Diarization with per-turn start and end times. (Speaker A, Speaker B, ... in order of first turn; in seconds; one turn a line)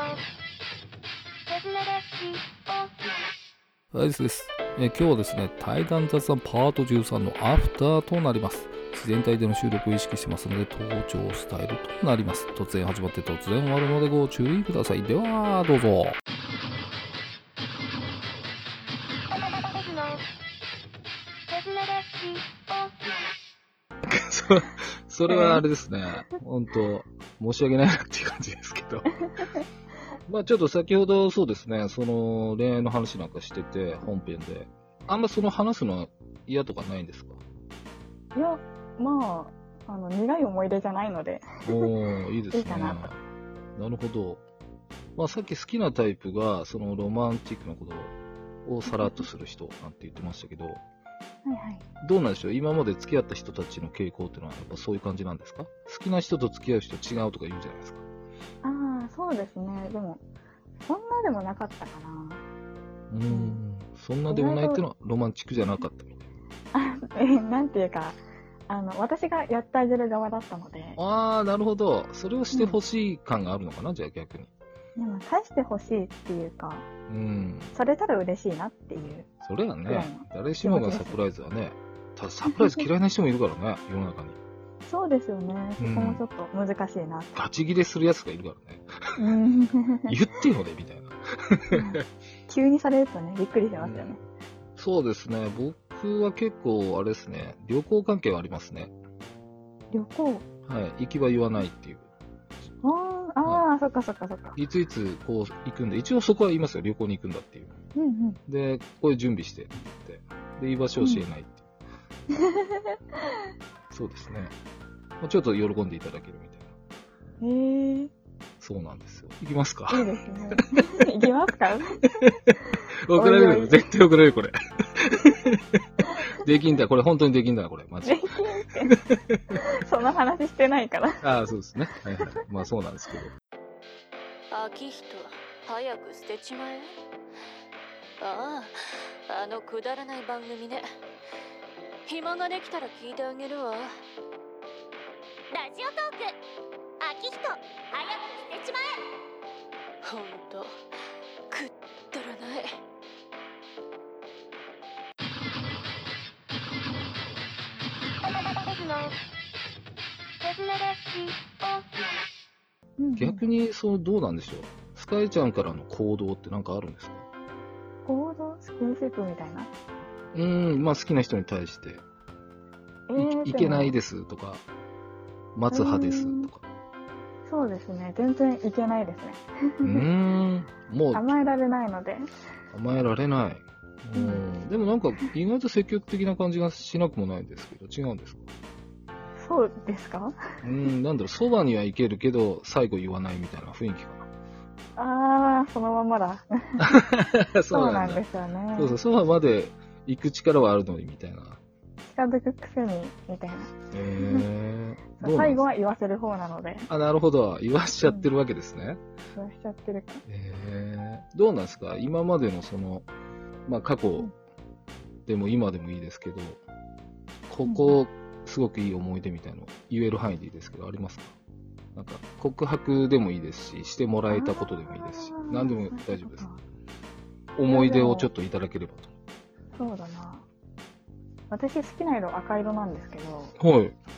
Speaker A: 3.9-16.2
Speaker A: 24.0-29.1
Speaker B: 25.3-25.6
Speaker A: 30.3-37.4
Speaker B: 38.3-41.5
Speaker A: 41.6-43.2
Speaker B: 42.5-43.1
Speaker A: 43.8-44.4
Speaker A: 45.1-48.1
Speaker A: 48.6-50.8
Speaker B: 48.9-49.2
Speaker B: 51.4-51.8
Speaker A: 52.0-58.0
Speaker B: 58.6-60.2
Speaker B: 60.8-62.4
Speaker A: 63.1-66.3
Speaker B: 63.3-63.6
Speaker B: 64.3-64.8
Speaker B: 66.7-71.0
Speaker A: 71.0-74.5
Speaker B: 72.5-72.8
Speaker B: 75.0-76.9
Speaker A: 77.1-77.8
Speaker B: 77.7-79.3
Speaker A: 79.4-84.4
Speaker B: 79.8-81.2
Speaker B: 84.8-87.3
Speaker A: 85.8-86.2
Speaker A: 87.3-89.3
Speaker B: 89.2-90.1
Speaker A: 90.1-92.0
Speaker B: 91.7-94.2
Speaker A: 93.8-94.2
Speaker A: 94.8-98.9
Speaker B: 99.9-100.4
Speaker A: 100.7-102.1
Speaker B: 102.8-104.5
Speaker A: 104.5-107.7
Speaker B: 108.0-108.4
Speaker A: 108.5-111.6
Speaker B: 111.0-111.2
Speaker A: 113.9-114.5
Speaker A: 115.2-116.7
Speaker B: 117.4-118.1
Speaker A: 118.6-120.1
Speaker B: 119.9-122.1
Speaker A: 122.2-122.5
Speaker A: 123.0-125.8
Speaker B: 123.1-123.8
Speaker A: 126.4-128.3
Speaker B: 128.0-128.9
Speaker A: 129.0-129.4
Speaker B: 129.6-131.2
Speaker A: 131.2-133.3
Speaker C: 134.5-136.9
Speaker C: 138.2-140.8
Speaker C: 142.1-143.9
Speaker D: 145.5-146.3
Speaker D: 147.0-148.9
Speaker C: 150.0-150.7
Speaker C: 151.5-152.8
Speaker B: 163.0-163.4
Speaker A: 163.2-167.2
Speaker B: 168.1-169.7
Speaker A: 170.3-172.0
Speaker B: 173.1-174.0
Speaker A: 173.2-174.6
Speaker A: 175.5-176.6
Speaker B: 175.7-176.5
Speaker B: 177.4-180.0
Speaker A: 179.8-181.3
Speaker B: 181.1-182.2
Speaker A: 182.7-188.4
Speaker B: 184.1-184.4
Speaker B: 189.4-190.3
Speaker A: 190.6-194.3
Speaker B: 194.9-196.8
Speaker A: 196.8-201.6
Speaker B: 197.7-199.0
Speaker B: 202.1-204.5
Speaker A: 203.9-205.6
Speaker B: 205.2-206.9
Speaker A: 206.9-209.0
Speaker B: 209.3-210.2
Speaker A: 210.2-213.1
Speaker A: 213.7-214.3
Speaker A: 215.2-216.6
Speaker A: 217.5-221.3
Speaker B: 217.6-218.0
Speaker A: 221.9-226.4
Speaker B: 224.3-226.6
Speaker A: 227.6-229.1
Speaker B: 227.7-228.3
Speaker B: 229.7-230.4
Speaker B: 231.5-233.5
Speaker A: 233.6-233.9